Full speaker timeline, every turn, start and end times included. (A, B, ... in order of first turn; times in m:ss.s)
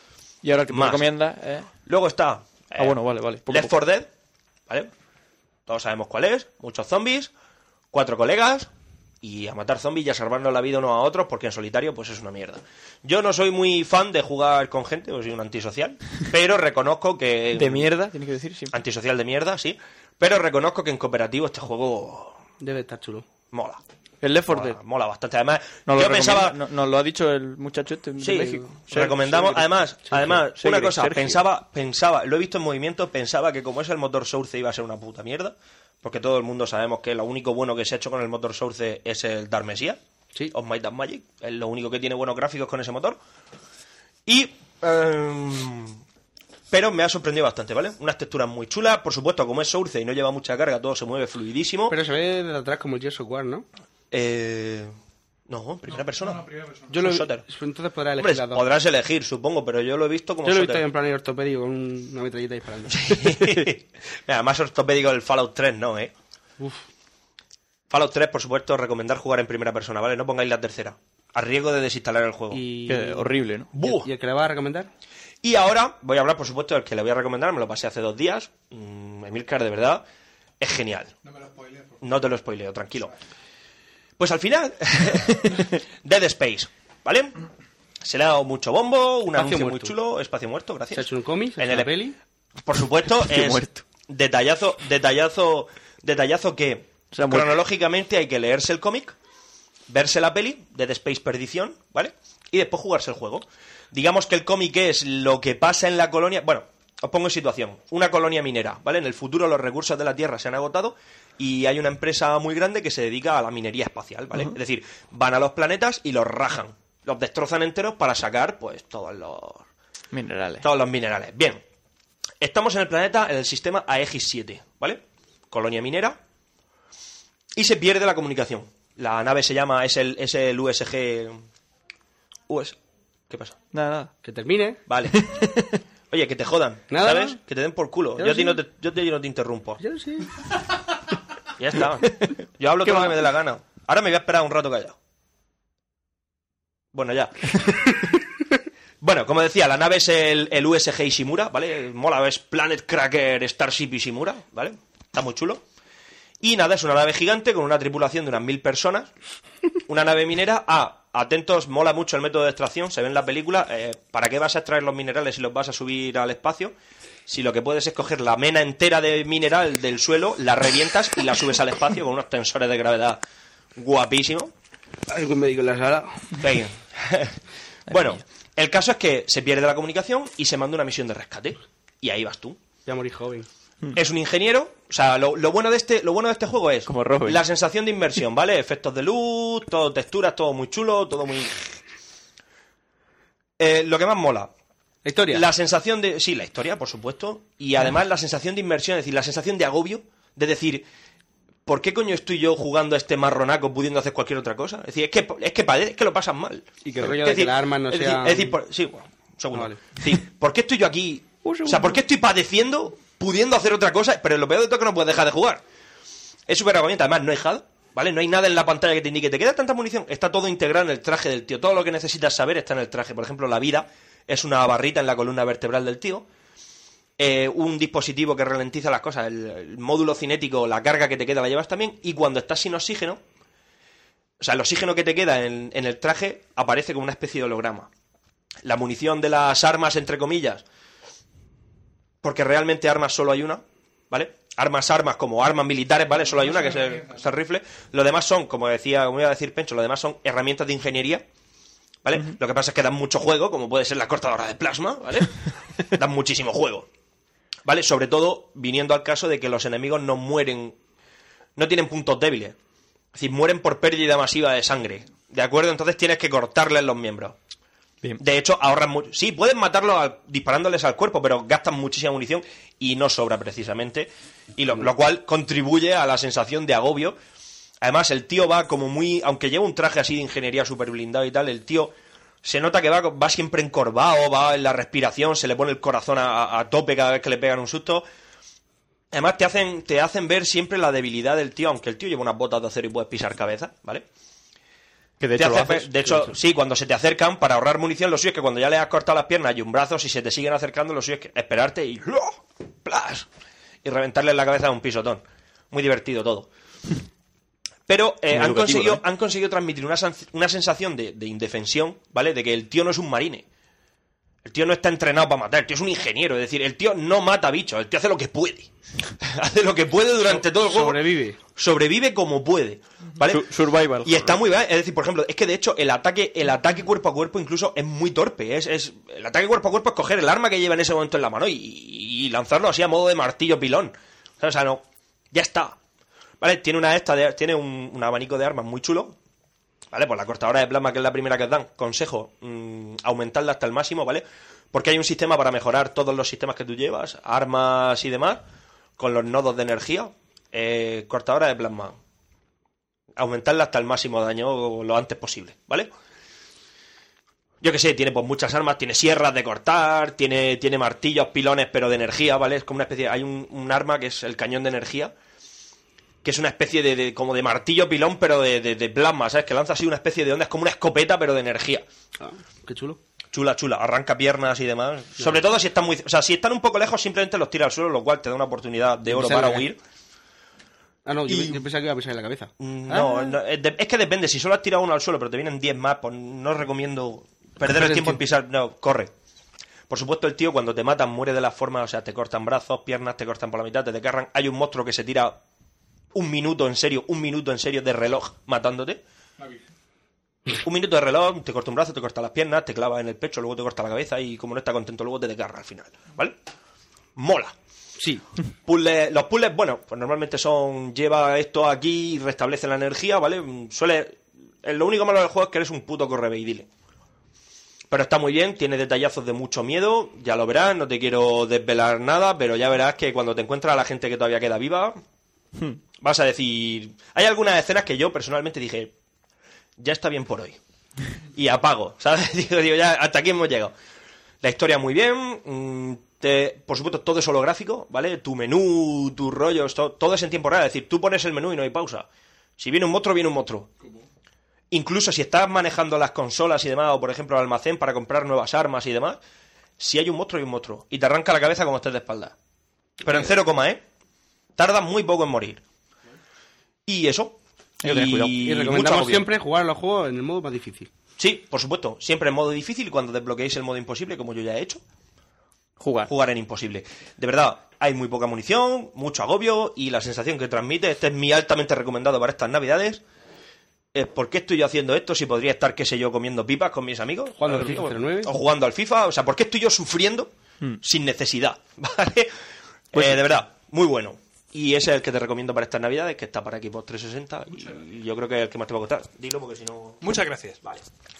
0:00.4-0:01.7 A
0:00.7-0:01.1 B
0:01.8-0:04.1 B
0:02.8-0:03.7 A
0:05.7-0:07.3 B
0:07.9-0:08.7 B
0:09.2-0:17.9 B
0:17.6-0:18.7 A
0:18.7-0:22.4 B
0:22.6-0:23.2 C
0:23.5-0:23.8 B
0:24.2-0:24.8 A
0:24.5-0:26.6 B
0:25.9-0:31.4 A
0:28.2-0:40.0 B
0:40.5-0:43.2 B
0:44.2-0:46.0 B
0:46.7-0:52.0 B
0:51.9-0:53.6 C
0:54.1-0:54.9 B
0:55.5-0:56.4 B
0:55.9-0:57.0 D
0:56.9-0:58.6 C
0:57.0-0:57.4 B
0:58.2-1:00.8 B
1:00.4-1:03.5 C
1:02.9-1:06.1 B
1:06.6-1:06.8 C
1:07.9-1:12.6 B
1:12.5-1:13.2 C
1:12.9-1:13.7 A
1:13.8-1:14.1 B
1:13.8-1:14.9 C
1:15.4-1:20.0 B
1:20.6-1:21.1 B
1:21.2-1:22.0 D
1:22.0-1:23.1 B
1:24.2-1:27.4 B
1:28.0-1:31.9 B
1:29.3-1:29.9 C
1:30.9-1:32.2 C
1:32.6-1:39.2 B
1:33.1-1:33.8 A
1:37.1-1:37.6 A
1:39.9-1:59.7 B
2:00.1-2:00.6 A
2:00.6-2:01.6 B
2:02.4-2:06.2 B
2:07.5-2:11.4 B
2:12.5-2:12.8 B
2:13.3-2:13.6 B
2:13.7-2:14.1 A
2:14.2-2:14.8 C
2:14.9-2:15.3 B
2:15.1-2:15.8 A
2:16.1-2:19.8 B
2:16.9-2:17.4 C
2:18.2-2:18.6 C
2:19.8-2:20.3 C
2:21.6-2:25.0 B
2:22.8-2:23.1 A
2:26.9-2:27.9 B
2:29.0-2:35.6 B
2:36.4-2:39.1 B
2:39.9-2:46.7 B
2:47.3-2:53.2 B
2:53.8-2:54.5 B
2:55.1-2:56.4 C
2:56.4-2:57.4 B
2:57.9-3:02.6 B
3:02.8-3:03.5 C
3:03.9-3:11.8 B
3:06.8-3:07.4 A
3:13.6-3:14.5 B
3:15.0-3:15.4 C
3:15.3-3:20.8 B
3:21.6-3:35.6 B
3:26.8-3:28.5 C
3:31.4-3:32.0 A
3:36.5-3:46.2 B
3:47.2-3:53.2 B
3:54.4-3:57.9 B
3:58.6-4:00.6 B
4:02.2-4:11.2 B
4:06.2-4:07.3 D
4:12.0-4:16.9 B
4:17.6-4:20.8 B
4:21.6-4:22.6 B
4:23.1-4:27.4 B
4:28.2-4:37.2 B
4:37.8-4:48.0 B
4:49.1-4:54.0 B
4:55.2-4:56.2 A
4:55.4-5:03.3 B
5:03.8-5:06.5 B
5:07.9-5:13.4 B
5:08.3-5:09.0 A
5:14.4-5:21.0 B
5:20.3-5:21.4 C
5:21.5-5:23.5 B
5:23.3-5:24.4 A
5:24.0-5:35.8 B
5:36.4-5:39.1 B
5:39.9-5:48.4 B
5:49.0-5:52.0 B
5:53.2-5:55.9 B
5:57.6-6:05.1 B
6:06.2-6:11.8 B
6:12.2-6:13.0 C
6:13.3-6:19.8 B
6:19.1-6:19.6 C
6:21.0-6:23.3 C
6:22.6-6:29.1 B
6:27.6-6:28.2 C
6:29.9-6:35.4 B
6:36.1-6:39.0 B
6:40.6-6:46.4 B
6:47.2-6:47.5 B
6:48.0-6:48.2 C
6:48.6-6:56.7 B
6:57.9-7:05.0 B
7:06.0-7:08.9 B
7:09.8-7:10.6 B
7:11.3-7:13.7 B
7:14.4-7:22.0 B
7:22.6-7:23.7 B
7:23.8-7:24.0 D
7:24.7-7:29.2 B
7:29.8-7:32.3 B
7:33.0-7:33.8 B
7:34.6-7:35.6 B
7:36.8-7:39.3 B
7:37.8-7:38.4 A
7:38.4-7:40.9 C
7:41.2-7:44.8 B
7:45.8-7:46.1 A
7:46.1-7:53.0 B
7:53.9-8:02.3 B
7:57.4-7:58.3 C
8:02.9-8:03.2 A
8:02.9-8:10.0 B
8:07.5-8:07.8 D
8:10.0-8:10.6 D